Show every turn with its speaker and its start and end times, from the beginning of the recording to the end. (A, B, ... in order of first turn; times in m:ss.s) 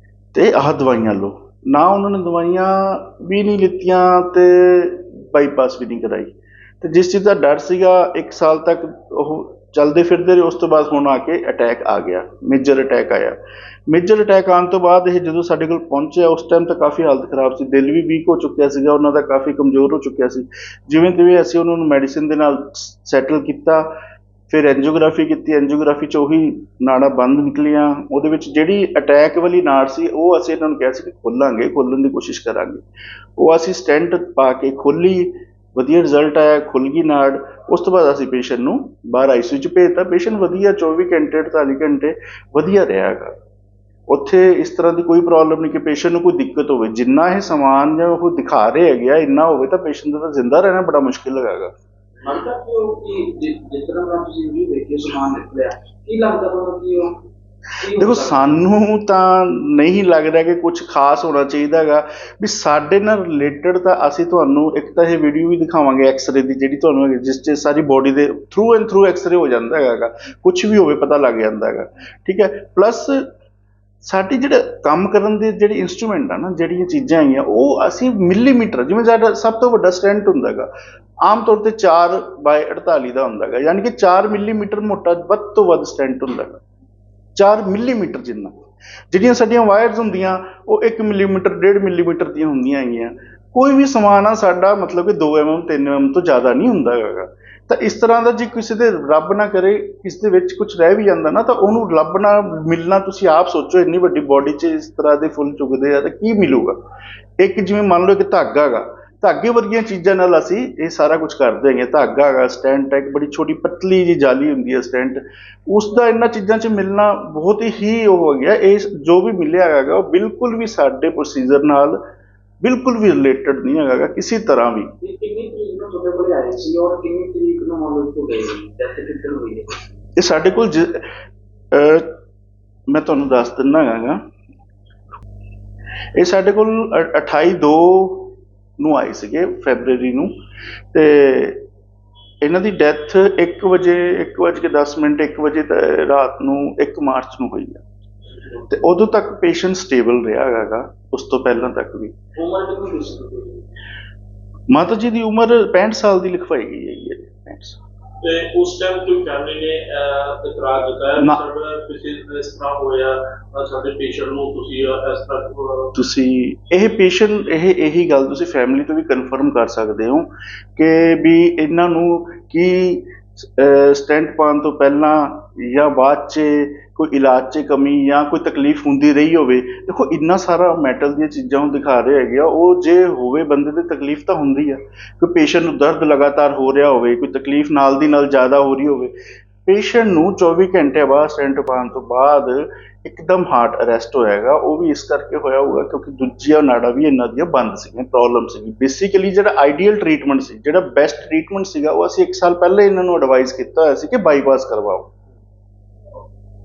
0:00.3-0:23.9 A
0:24.5-0:32.8 A
0:33.4-0:43.3 A
0:44.1-0:51.7 A
0:52.2-0:57.2 B
0:57.8-0:58.4 B
0:58.0-1:13.2 A
1:14.0-1:20.7 A
1:21.2-1:26.6 A
1:27.4-1:46.8 A
1:47.4-2:02.0 A
2:02.6-2:04.9 A
2:05.0-2:09.9 B
2:10.2-2:11.0 A
2:11.7-2:12.1 A
2:12.9-2:14.2 A
2:16.2-2:20.3 A
2:20.9-2:21.6 A
2:22.4-2:27.8 A
2:28.7-2:32.1 A
2:32.4-2:33.7 B
2:34.7-2:37.8 A
2:38.2-2:45.9 C
2:45.9-3:09.1 A
3:09.6-3:25.1 A